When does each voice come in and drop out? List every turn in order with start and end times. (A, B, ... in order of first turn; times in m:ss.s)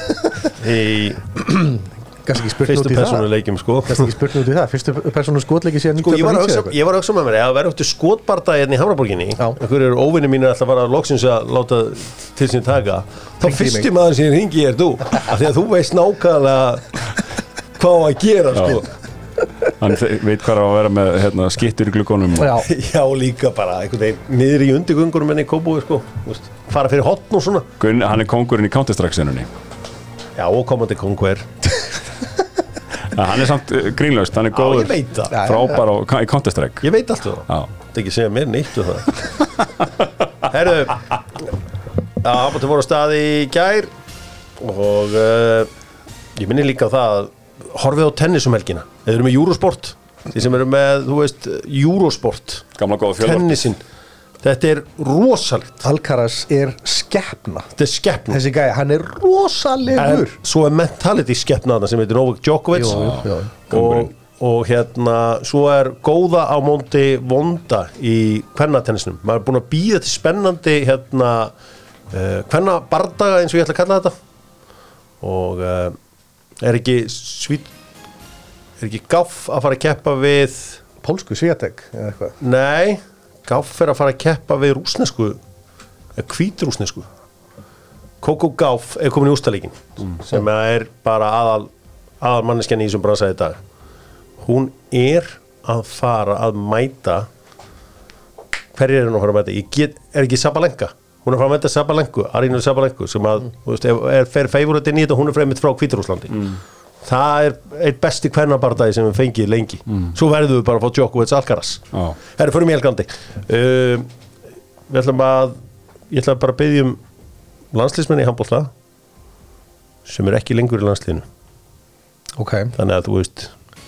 0:00.5-0:01.2 A
0:01.4-0:03.3 B
0:02.6-0:04.1 A
0:03.9-0:06.7 B
0:06.0-0:17.2 A
0:13.4-0:13.9 B
0:17.8-0:18.9 A
0:18.6-0:18.8 C
0:19.8-0:22.6 C
0:22.4-0:22.7 B
0:22.6-0:27.7 A
0:27.8-0:29.5 C
0:30.4-0:31.5 A
0:33.1-0:36.9 C
0:34.5-0:35.6 A
0:35.3-0:35.7 B
0:36.8-0:39.3 A
0:40.5-0:41.5 A
0:42.2-0:43.9 A
0:44.6-0:45.7 A
0:46.4-0:53.8 A
0:52.8-0:53.7 C
0:54.4-0:55.8 A
0:55.8-0:57.7 B
0:57.8-0:58.4 A
0:58.3-1:00.3 B
1:00.0-1:03.1 A
1:02.7-1:03.5 B
1:02.8-1:04.1 C
1:03.7-1:11.5 A
1:12.1-1:14.1 A
1:15.2-1:16.0 A
1:16.6-1:17.7 A
1:18.8-1:20.8 A
1:21.0-1:22.4 B
1:22.4-1:25.4 A
1:26.1-1:27.1 A
1:28.2-1:31.7 A
1:32.2-1:33.6 A
1:34.4-1:37.3 A
1:38.7-1:46.5 A
1:46.3-1:46.6 C
1:47.0-1:54.1 A
1:54.9-1:55.6 A
1:56.1-1:57.0 A
1:57.7-1:58.7 A
2:00.0-2:01.2 A
2:02.4-2:02.7 B
2:02.7-2:03.5 A